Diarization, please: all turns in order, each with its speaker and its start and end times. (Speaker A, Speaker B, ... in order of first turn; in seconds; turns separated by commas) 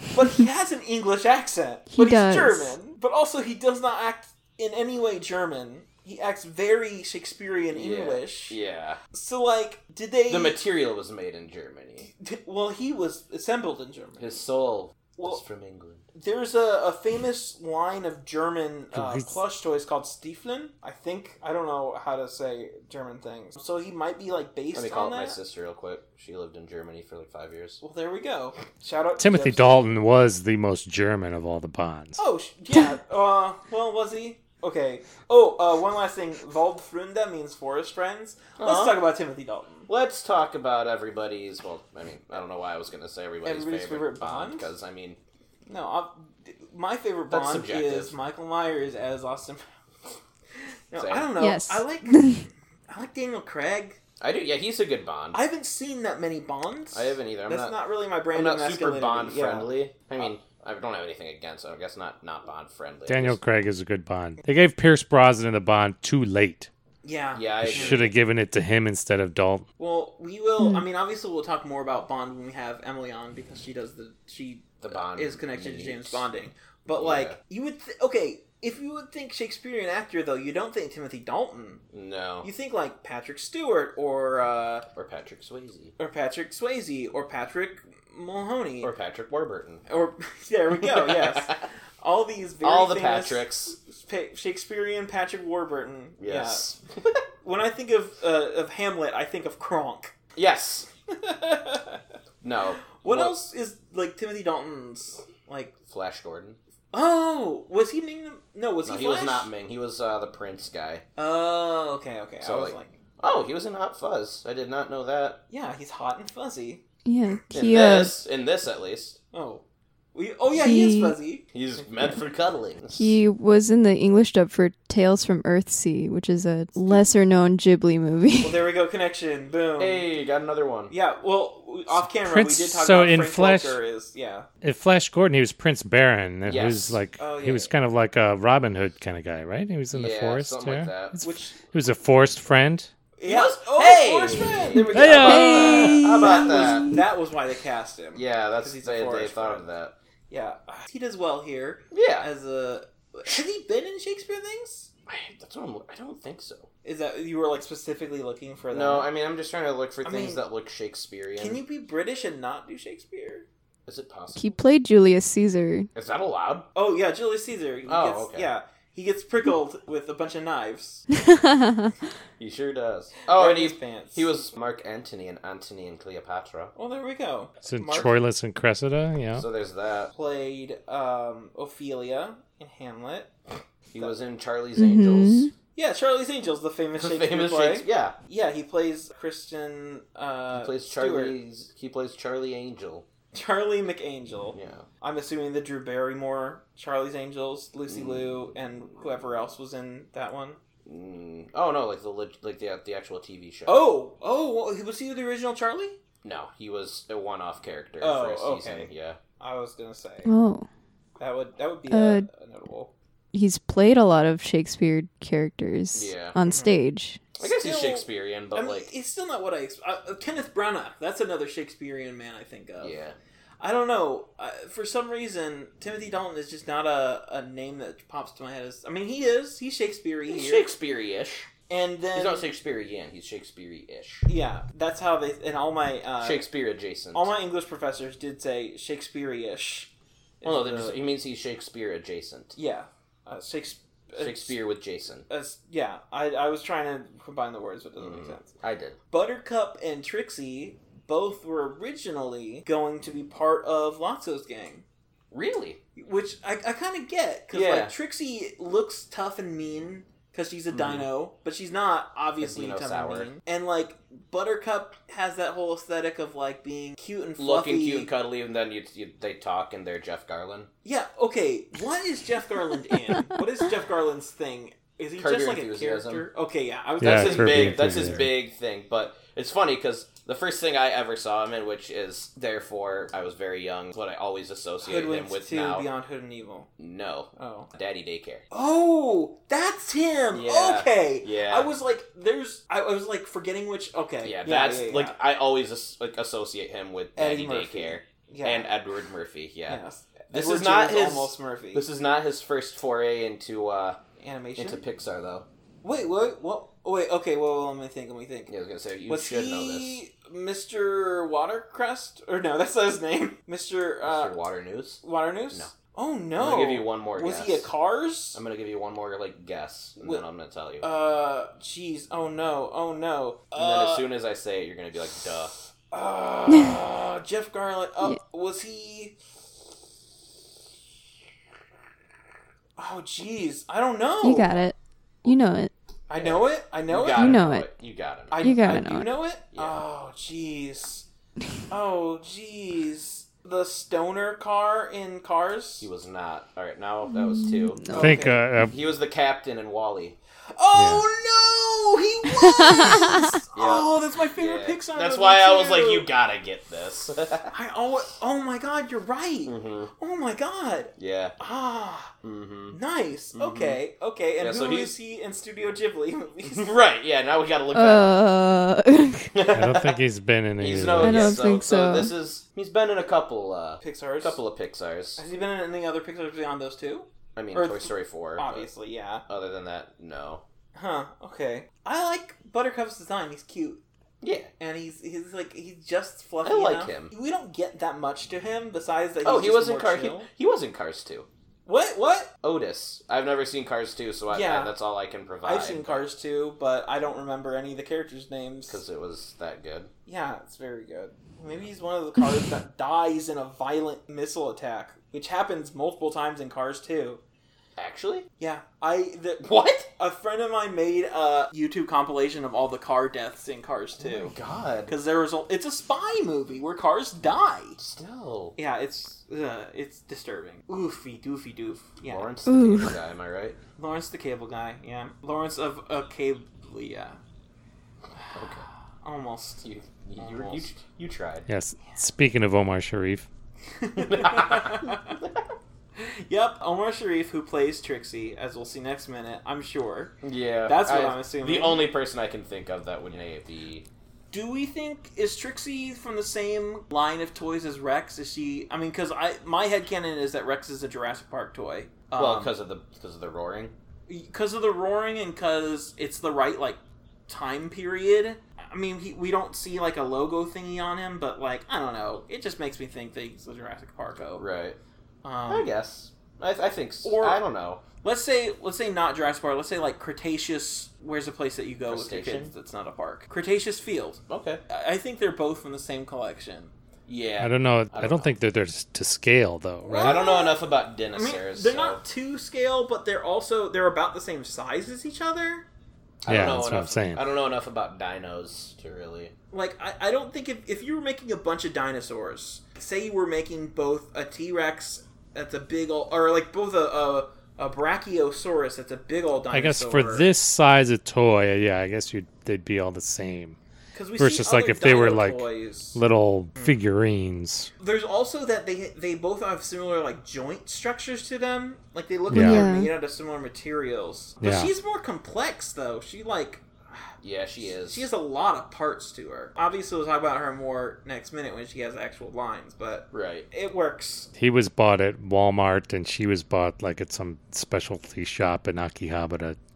Speaker A: 0.1-8.6, Speaker B: 1.9-2.7, Speaker C: 7.7-9.0, Speaker A: 9.1-10.6, Speaker C: 10.3-12.1, Speaker A: 12.0-14.4, Speaker C: 14.2-16.0, Speaker A: 15.2-15.4, Speaker A: 16.1-25.4, Speaker D: 18.9-19.3, Speaker C: 24.7-27.8, Speaker A: 27.8-29.9, Speaker D: 29.2-32.2, Speaker A: 32.2-39.9, Speaker C: 38.6-39.0, Speaker C: 39.9-45.2, Speaker A: 43.4-44.7, Speaker A: 45.7-49.6, Speaker C: 47.3-48.1, Speaker A: 50.9-54.0, Speaker C: 50.9-51.3, Speaker B: 51.4-52.4, Speaker C: 54.2-55.4, Speaker A: 55.3-60.3, Speaker C: 56.9-57.8, Speaker C: 58.3-63.4, Speaker D: 63.1-66.7, Speaker A: 67.0-68.1, Speaker C: 67.3-68.1, Speaker D: 67.6-69.6, Speaker A: 69.8-81.8, Speaker B: 70.6-70.8, Speaker C: 74.8-76.2, Speaker C: 76.9-77.4, Speaker C: 81.9-82.5, Speaker A: 82.4-84.8, Speaker C: 84.9-85.9, Speaker A: 86.0-88.9, Speaker C: 88.8-89.8, Speaker A: 89.9-96.7, Speaker C: 90.8-91.6, Speaker C: 92.6-93.8, Speaker C: 96.2-97.1, Speaker A: 97.4-100.1, Speaker C: 100.3-100.9, Speaker A: 101.2-102.0, Speaker C: 102.4-103.4, Speaker A: 103.0-105.7, Speaker C: 105.9-106.6, Speaker A: 106.9-109.5, Speaker C: 108.8-111.0, Speaker A: 111.2-113.0, Speaker C: 112.4-115.4, Speaker A: 115.5-116.8, Speaker B: 117.0-118.1, Speaker C: 117.5-119.2, Speaker A: 119.3-121.5, Speaker B: 120.5-121.1, Speaker C: 121.5-123.2, Speaker B: 122.9-128.6, Speaker A: 126.8-127.2, Speaker A: 128.4-130.1, Speaker C: 129.8-130.9, Speaker A: 130.9-134.5, Speaker D: 131.9-133.8, Speaker D: 134.6-142.9, Speaker C: 136.4-137.0, Speaker A: 137.2-137.7, Speaker C: 139.9-141.2, Speaker A: 141.2-141.6, Speaker A: 143.2-149.7, Speaker C: 143.2-147.0, Speaker B: 144.7-146.9, Speaker D: 144.9-145.8, Speaker C: 148.1-149.9, Speaker A: 150.3-154.9, Speaker C: 151.9-152.3, Speaker C: 155.1-156.7, Speaker A: 156.8-159.1, Speaker C: 158.7-161.6, Speaker A: 160.0-160.4, Speaker A: 161.4-163.4, Speaker C: 163.9-164.5, Speaker B: 164.3-165.9, Speaker C: 165.9-166.7, Speaker A: 166.7-171.1, Speaker C: 167.8-168.5, Speaker C: 172.4-176.7, Speaker A: 173.3-174.3, Speaker A: 176.7-178.2, Speaker D: 177.6-179.4, Speaker C: 179.3-180.1, Speaker A: 180.1-183.3, Speaker C: 183.9-185.5, Speaker B: 184.8-185.5, Speaker A: 185.7-191.4, Speaker C: 186.9-188.2, Speaker C: 190.5-193.1, Speaker A: 193.3-200.6, Speaker C: 194.5-194.9, Speaker C: 197.9-198.3, Speaker C: 200.8-203.8, Speaker A: 203.7-205.9, Speaker C: 206.2-209.2, Speaker A: 208.0-210.3, Speaker B: 210.2-210.7, Speaker A: 211.2-212.9, Speaker B: 211.9-212.3, Speaker B: 213.3-217.2, Speaker C: 215.9-216.4, Speaker A: 216.4-216.8, Speaker C: 217.4-218.9, Speaker A: 217.4-223.0, Speaker C: 222.8-223.2, Speaker A: 223.6-230.7, Speaker C: 230.3-231.5, Speaker A: 231.7-232.5, Speaker C: 232.1-234.3, Speaker A: 234.3-236.4, Speaker C: 236.2-237.3, Speaker A: 237.1-241.0, Speaker C: 240.4-242.6, Speaker A: 242.5-244.6, Speaker C: 244.2-245.2, Speaker A: 245.3-248.5, Speaker C: 248.0-249.0, Speaker A: 249.1-254.8, Speaker C: 255.3-255.8, Speaker A: 255.9-268.1, Speaker C: 257.5-257.9, Speaker C: 260.7-261.1, Speaker C: 262.4-263.3, Speaker C: 267.4-270.7, Speaker A: 270.8-278.2, Speaker C: 275.2-276.3, Speaker D: 277.0-278.3, Speaker C: 277.0-285.9, Speaker A: 284.8-286.7, Speaker C: 286.8-288.4, Speaker A: 287.4-287.7, Speaker A: 288.5-295.2, Speaker C: 290.3-291.7, Speaker C: 294.2-304.0, Speaker A: 297.1-298.7, Speaker A: 299.7-301.9, Speaker A: 304.2-304.8, Speaker C: 304.6-305.5, Speaker A: 305.8-308.5, Speaker C: 308.5-310.0, Speaker A: 309.1-314.4, Speaker C: 314.0-315.0, Speaker A: 315.0-318.4, Speaker C: 316.4-317.7, Speaker C: 318.3-320.9, Speaker A: 320.0-320.2, Speaker A: 320.8-324.1, Speaker C: 323.6-325.5, Speaker A: 325.9-329.1, Speaker A: 332.8-334.6, Speaker B: 334.2-335.7, Speaker A: 336.1-337.4, Speaker C: 336.2-338.4, Speaker B: 337.1-337.8, Speaker B: 338.3-339.1, Speaker A: 338.3-341.1, Speaker C: 339.5-339.8, Speaker A: 341.7-345.9, Speaker C: 345.8-347.9, Speaker B: 347.2-348.2, Speaker A: 347.9-348.4, Speaker D: 347.9-348.7, Speaker C: 348.6-350.1, Speaker A: 350.5-356.1, Speaker D: 350.7-351.0, Speaker C: 353.5-357.5, Speaker A: 357.5-362.1, Speaker C: 359.4-359.9, Speaker C: 361.0-361.4, Speaker C: 362.2-362.8, Speaker A: 362.7-366.7, Speaker C: 363.3-363.8, Speaker C: 364.4-364.9, Speaker C: 366.4-368.2, Speaker B: 367.7-369.3, Speaker C: 369.3-369.9, Speaker D: 369.5-371.3, Speaker C: 370.6-375.2, Speaker B: 371.0-372.1, Speaker A: 373.8-374.4, Speaker A: 375.2-379.2, Speaker C: 377.3-378.7, Speaker C: 379.3-380.4, Speaker A: 380.7-383.8, Speaker C: 384.2-384.5, Speaker A: 384.6-390.3, Speaker C: 386.4-387.1, Speaker C: 389.2-391.3, Speaker A: 391.6-392.3, Speaker C: 392.4-396.0, Speaker A: 394.3-394.7, Speaker A: 395.4-398.8, Speaker C: 398.7-399.9, Speaker A: 400.1-407.2, Speaker C: 407.8-408.3, Speaker A: 408.4-414.3, Speaker C: 409.4-409.9, Speaker C: 414.0-414.9, Speaker A: 414.9-417.8, Speaker C: 417.8-418.6, Speaker A: 418.6-422.3, Speaker C: 422.0-423.6, Speaker B: 422.5-422.9, Speaker A: 423.8-427.2, Speaker C: 428.3-428.6, Speaker A: 429.0-429.6, Speaker C: 429.6-431.5, Speaker A: 430.2-430.7, Speaker D: 431.5-433.3, Speaker A: 433.8-435.2, Speaker C: 434.0-435.4, Speaker A: 435.9-441.9, Speaker C: 440.2-443.9, Speaker A: 444.3-452.5, Speaker C: 452.2-453.7, Speaker A: 454.1-464.4, Speaker C: 464.3-464.8, Speaker A: 465.2-465.7, Speaker C: 465.5-467.8, Speaker A: 467.0-467.4, Speaker A: 468.0-476.7, Speaker C: 471.9-472.5, Speaker C: 474.3-474.6, Speaker C: 477.1-478.3, Speaker D: 477.4-480.2, Speaker A: 479.8-480.6, Speaker C: 480.0-482.0, Speaker A: 481.1-485.6, Speaker C: 486.2-489.3, Speaker D: 486.2-487.2, Speaker A: 489.5-500.3, Speaker D: 499.5-503.6, Speaker A: 503.9-506.0, Speaker D: 504.2-507.7, Speaker A: 506.5-506.8, Speaker A: 507.8-524.3, Speaker D: 512.3-512.6, Speaker B: 512.3-512.9, Speaker D: 514.4-514.7, Speaker C: 517.2-518.0, Speaker C: 523.1-523.5, Speaker D: 524.4-529.6